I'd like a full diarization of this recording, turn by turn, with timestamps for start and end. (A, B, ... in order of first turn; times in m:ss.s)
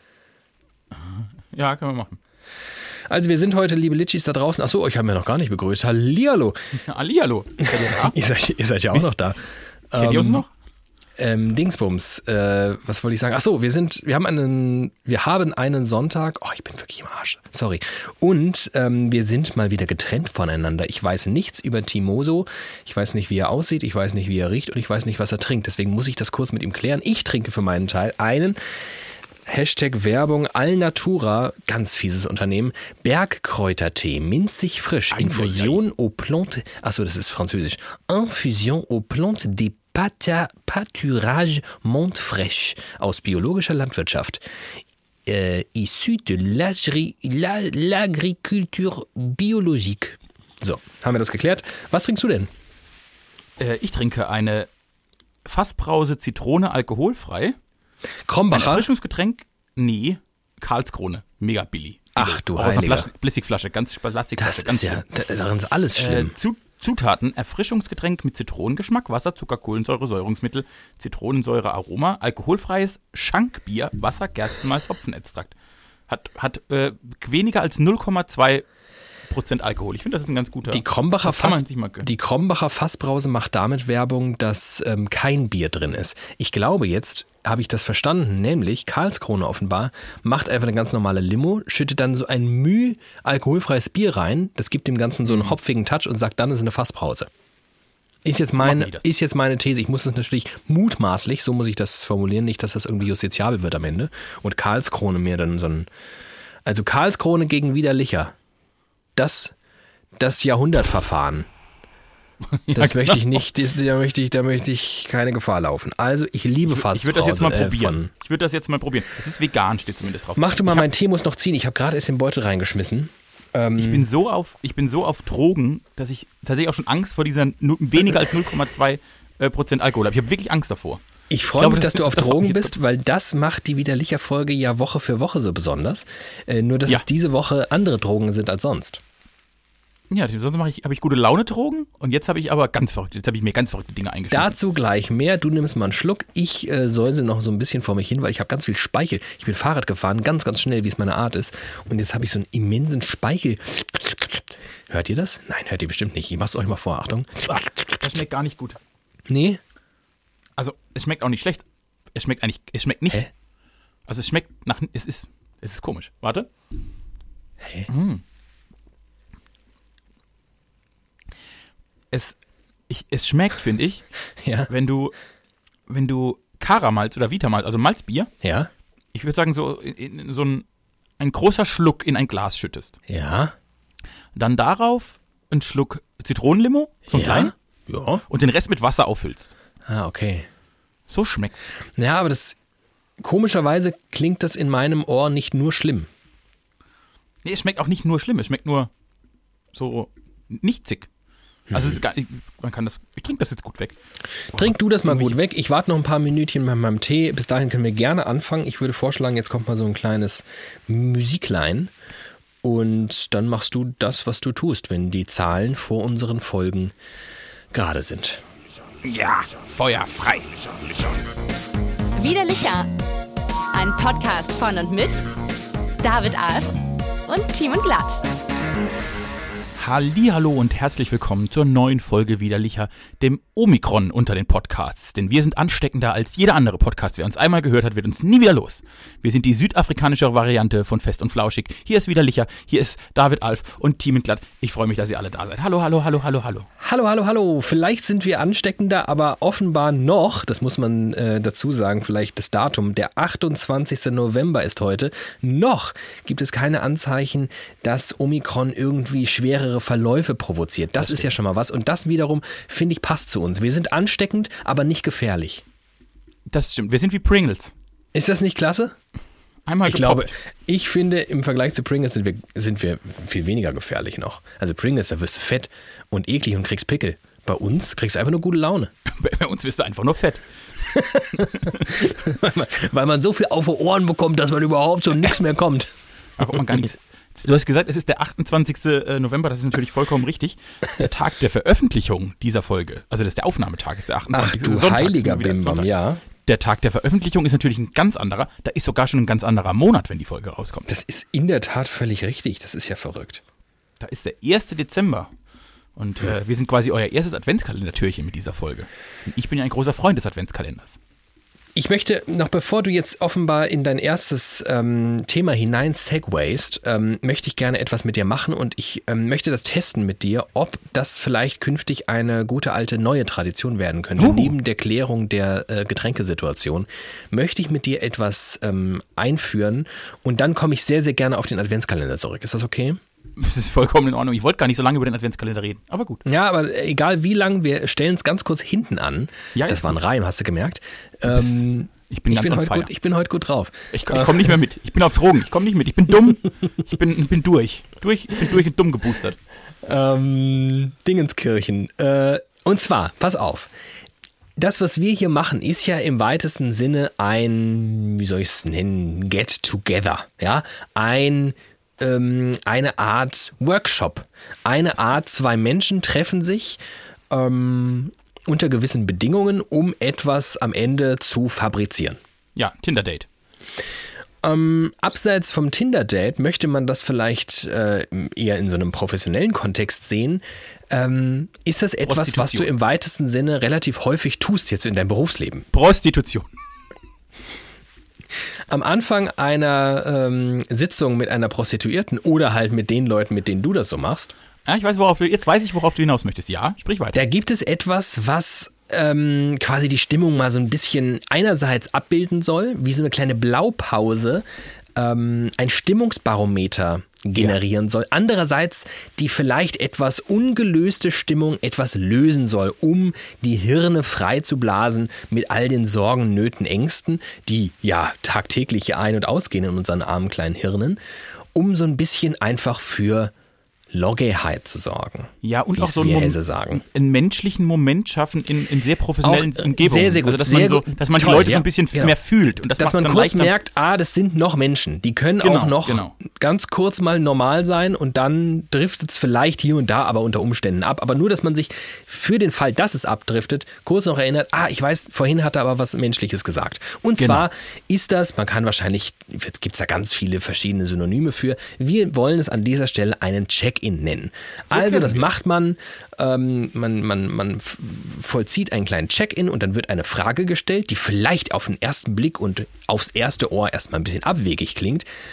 0:00.9-0:02.2 A
0:03.1-0:06.6 B
0:06.9-0:08.2 A
0:07.6-0:10.4 B
0:10.0-0:10.5 A
0:11.2-0:28.8 B
0:29.5-0:44.4 B
0:35.1-0:35.8 A
0:45.2-0:52.5 B
0:53.6-0:54.7 A
0:55.4-0:57.6 A
0:58.2-0:58.8 B
0:58.5-1:05.0 A
1:02.1-1:03.1 B
1:04.4-1:06.3 B
1:06.0-1:15.6 A
1:16.1-1:18.6 A
1:19.3-1:22.1 A
1:20.7-1:37.3 B
1:35.2-1:35.6 A
1:38.2-1:45.9 B
1:38.6-1:39.0 A
1:46.6-1:48.3 B
1:49.2-1:49.5 B
1:50.2-1:51.5 B
1:52.5-1:53.4 A
1:52.7-1:58.1 B
1:56.7-2:00.8 A
2:00.4-2:04.0 B
2:03.8-2:11.0 A
2:11.3-2:19.0 B
2:11.6-2:12.7 A
2:20.1-2:24.6 A
2:24.3-2:38.0 B
2:38.0-2:38.8 A
2:39.3-2:39.6 B
2:40.6-2:43.3 A
2:44.1-2:46.5 A
2:47.9-2:48.2 A
2:52.1-2:52.4 A
2:52.9-2:54.0 A
2:54.4-2:54.7 B
2:54.7-2:55.2 A
2:55.9-2:58.3 A
2:58.4-2:58.7 B
2:59.1-3:00.6 A
3:01.2-3:02.9 A
3:03.1-3:03.5 B
3:04.3-3:07.5 A
3:07.1-3:08.2 B
3:08.3-3:09.5 A
3:09.9-3:10.5 B
3:11.1-3:11.7 A
3:12.0-3:12.6 B
3:13.2-3:16.1 B
3:17.4-3:18.9 A
3:19.7-3:21.1 A
3:21.7-3:22.0 B
3:21.7-3:24.0 A
3:24.5-3:25.4 A
3:24.5-3:31.9 B
3:32.6-3:36.9 B
3:37.7-3:38.4 B
3:39.0-3:41.2 A
3:42.2-3:42.9 C
3:43.7-3:45.3 C
3:46.0-3:46.8 C
3:47.3-3:48.3 C
3:49.8-4:06.7 A
4:06.8-4:25.6 B
4:21.0-4:21.3 A
4:26.5-4:27.7 A
4:28.1-4:29.0 B
4:29.6-4:30.3 A
4:29.8-4:38.9 B
4:39.1-4:41.9 A
4:40.9-4:46.6 B
4:46.4-4:55.9 A
4:54.3-4:56.2 B
4:56.4-5:00.9 A
5:00.9-5:03.4 B
5:04.0-5:05.3 A
5:06.0-5:11.0 A
5:11.8-5:33.0 B
5:24.2-5:24.5 A
5:33.4-5:36.2 A
5:36.2-5:44.5 B
5:39.5-5:39.9 A
5:41.3-5:42.9 A
5:43.9-5:49.4 A
5:49.8-5:53.7 B
5:54.6-6:06.8 B
6:07.3-6:12.2 B
6:12.6-6:13.3 A
6:14.4-6:25.7 B
6:22.0-6:22.7 A
6:25.7-6:26.5 A
6:28.7-6:34.3 B
6:34.6-6:37.2 A
6:37.1-6:44.4 B
6:45.0-7:01.0 B
7:01.5-7:03.3 B
7:03.9-7:06.8 B
7:05.4-7:13.5 A
7:09.2-7:12.1 B
7:12.8-7:45.0 B
7:15.4-7:16.1 A
7:27.2-7:27.4 A
7:34.7-7:35.3 A